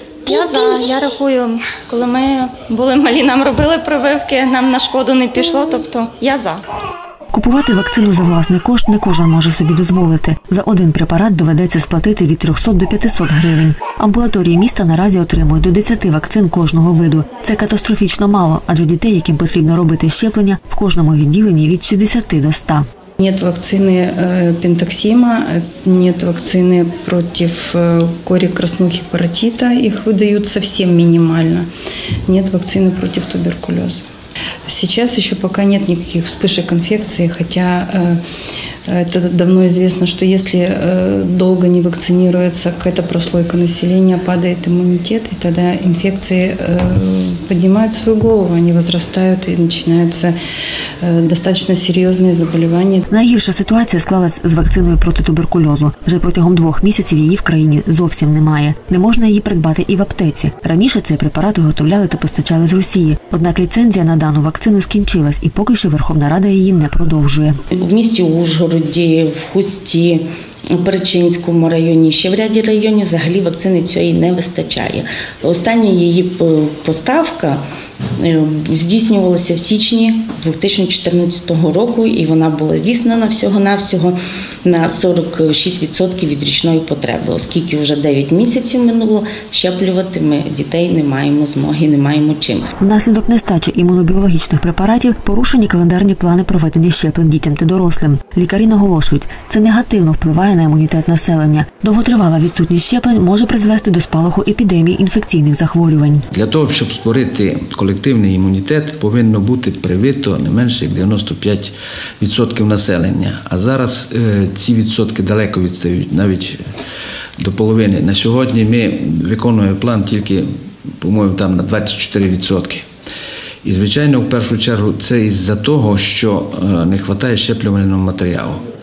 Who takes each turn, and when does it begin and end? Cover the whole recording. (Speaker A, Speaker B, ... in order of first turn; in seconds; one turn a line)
Speaker A: 0.2-6.6
Speaker B: 7.3-22.9
Speaker C: 23.2-31.6
Speaker C: 32.3-34.0
Speaker C: 34.7-38.2
Speaker C: 38.9-50.3
Speaker C: 51.0-53.1
Speaker B: 53.1-67.6
Speaker D: 67.7-77.6
Speaker D: 78.2-92.7
Speaker B: 92.8-106.2
Speaker E: 106.3-116.6
Speaker E: 117.4-120.4
Speaker E: 121.0-122.8
Speaker E: 123.6-128.6